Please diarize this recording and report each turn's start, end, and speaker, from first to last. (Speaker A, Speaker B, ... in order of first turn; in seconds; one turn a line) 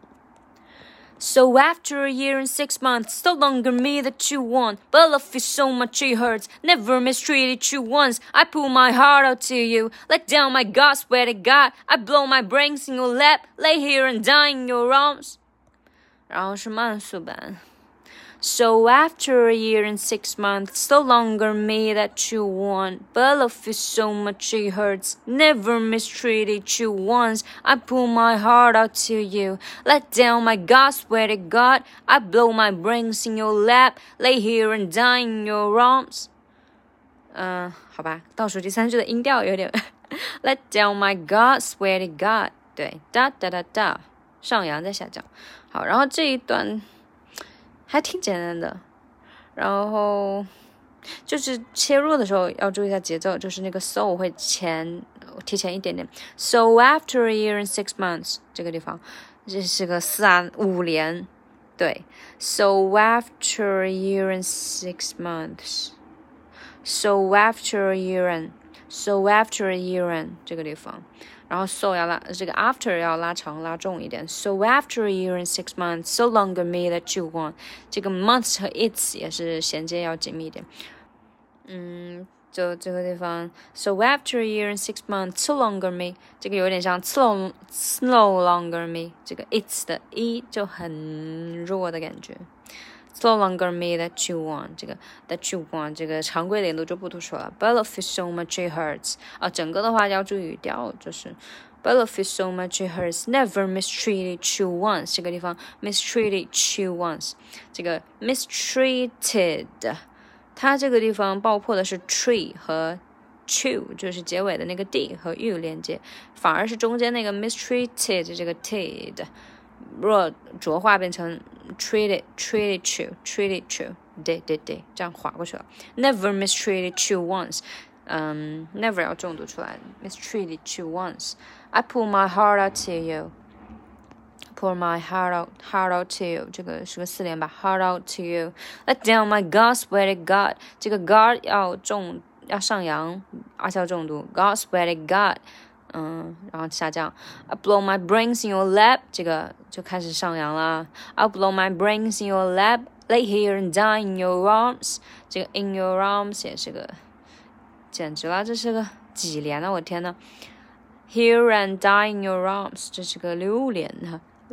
Speaker A: 1.2-15.4
Speaker A: 16.3-17.6
Speaker A: 18.4-36.3
Speaker A: 37.3-46.9
Speaker A: 47.9-48.8
Speaker A: 49.6-50.5
Speaker A: 51.2-66.0
Speaker A: 66.8-80.7
Speaker A: 81.7-92.5
Speaker A: 93.1-110.0
Speaker A: 110.6-119.3
Speaker A: 119.8-133.3
Speaker A: 134.5-157.0
Speaker A: 157.9-160.2
Speaker A: 161.1-164.2